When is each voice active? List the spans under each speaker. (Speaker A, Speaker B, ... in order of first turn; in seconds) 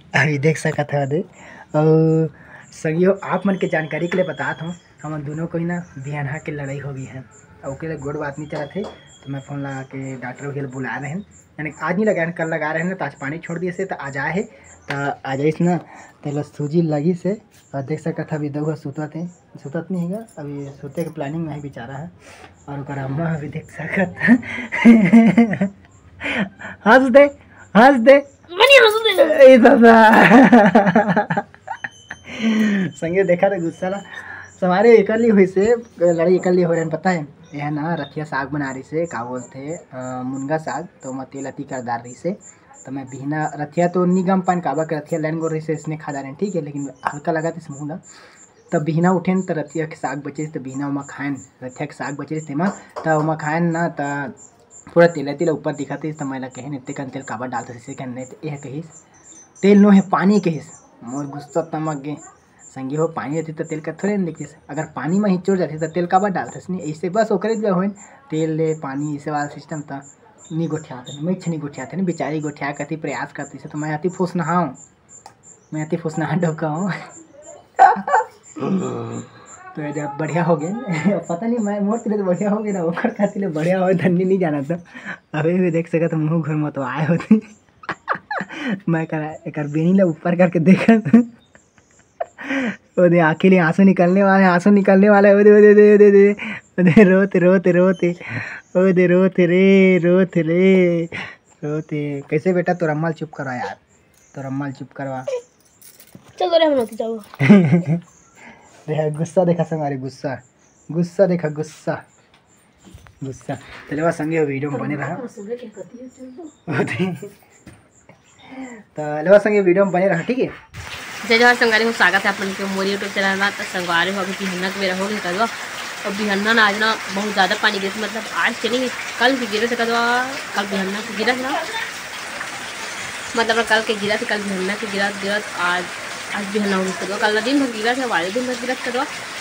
Speaker A: 0.2-25.7, 26.2-28.3, 29.0-31.4, 32.3-48.0, 48.7-54.4, 54.9-58.9, 59.6-62.2, 62.7-74.8, 75.7-77.1, 77.8-79.2, 79.7-87.5, 88.1-91.3, 92.4-103.8, 104.3-105.3, 107.4-108.0, 108.9-112.0, 113.2-115.2, 116.7-117.3, 118.5-120.5
Speaker B: 28.5-29.4, 106.4-107.3, 114.7-116.5, 121.2-131.6, 133.3-139.1